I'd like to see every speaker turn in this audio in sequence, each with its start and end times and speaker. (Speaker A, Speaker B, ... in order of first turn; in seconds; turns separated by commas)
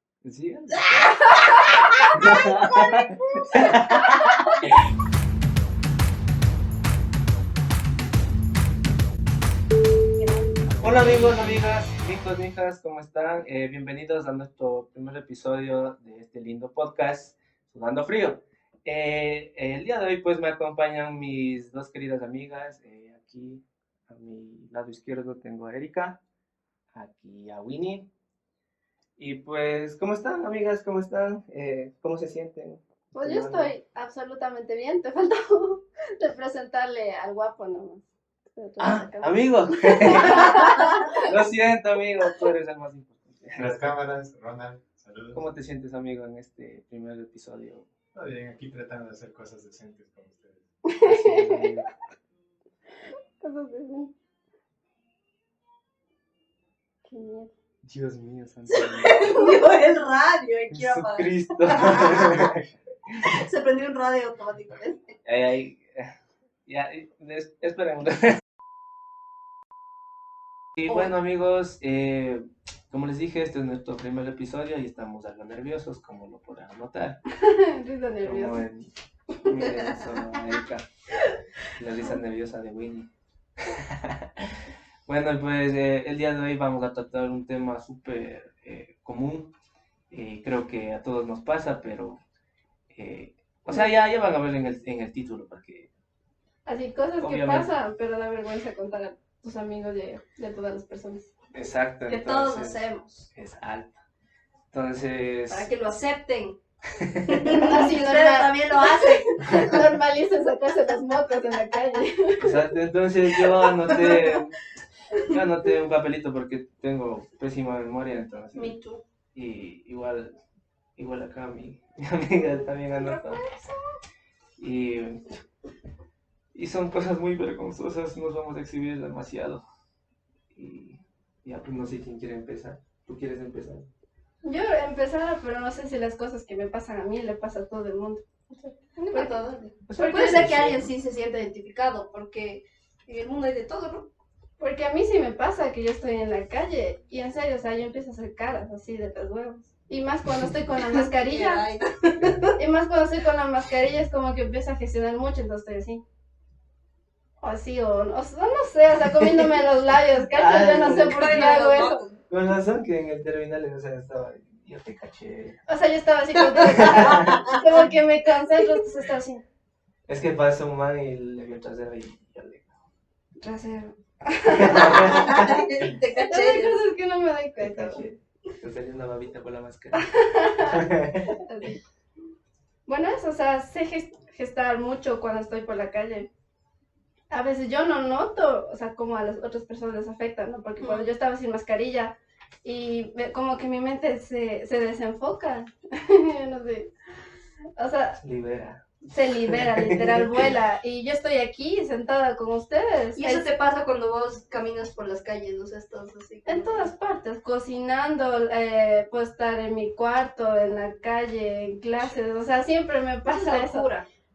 Speaker A: 0.2-1.1, Speaker B: 1.7-2.1, Speaker C: 1.9-3.0, Speaker A: 2.1-4.4, Speaker A: 10.8-26.2, Speaker A: 26.9-28.1, Speaker A: 29.2-33.7, Speaker B: 33.1-41.3, Speaker A: 38.8-43.8, Speaker D: 43.6-45.4, Speaker A: 45.3-47.9, Speaker D: 48.1-50.6, Speaker B: 50.9-51.7, Speaker A: 51.0-51.9, Speaker B: 53.4-54.1, Speaker B: 57.1-57.5, Speaker A: 57.8-59.5, Speaker C: 58.7-62.5, Speaker A: 60.7-63.3, Speaker C: 63.2-65.1, Speaker A: 65.2-66.1, Speaker A: 66.7-68.4, Speaker A: 70.8-77.2, Speaker B: 77.3-78.6, Speaker A: 78.2-80.9, Speaker C: 79.6-79.9, Speaker A: 81.8-83.1, Speaker A: 83.6-89.5, Speaker A: 90.1-92.2, Speaker A: 92.9-95.9, Speaker B: 96.7-101.3, Speaker A: 97.2-97.7, Speaker A: 101.5-102.8, Speaker C: 102.1-103.3, Speaker A: 103.3-104.0, Speaker A: 104.7-105.7, Speaker C: 105.5-106.6, Speaker A: 106.9-107.5, Speaker C: 107.2-109.8, Speaker B: 107.5-112.6, Speaker A: 112.4-114.5, Speaker B: 113.9-114.4, Speaker A: 115.3-118.7, Speaker C: 118.5-119.0, Speaker A: 119.3-120.3, Speaker A: 121.0-123.4, Speaker C: 122.9-123.8, Speaker A: 124.6-125.3, Speaker A: 126.5-129.6, Speaker A: 130.5-133.9, Speaker B: 134.4-139.4, Speaker C: 138.9-144.1, Speaker A: 139.9-140.9, Speaker B: 140.0-140.4, Speaker B: 144.6-151.6, Speaker C: 150.9-152.6, Speaker B: 152.6-156.0, Speaker B: 157.4-162.0, Speaker A: 160.3-161.4, Speaker C: 160.8-162.2, Speaker A: 162.3-165.6, Speaker B: 165.7-169.4, Speaker C: 166.3-167.8, Speaker A: 166.7-167.4, Speaker A: 170.1-172.7, Speaker B: 173.4-175.4, Speaker A: 174.5-175.6, Speaker C: 174.8-176.8, Speaker B: 176.1-178.0, Speaker A: 177.6-180.1, Speaker B: 179.9-181.8, Speaker A: 180.6-181.3, Speaker B: 182.9-186.3, Speaker B: 187.3-196.9, Speaker C: 190.8-191.1, Speaker B: 197.8-198.2, Speaker A: 198.2-198.8, Speaker B: 199.1-203.4, Speaker A: 199.5-200.6, Speaker C: 203.2-206.9, Speaker B: 206.4-213.9, Speaker C: 213.2-214.1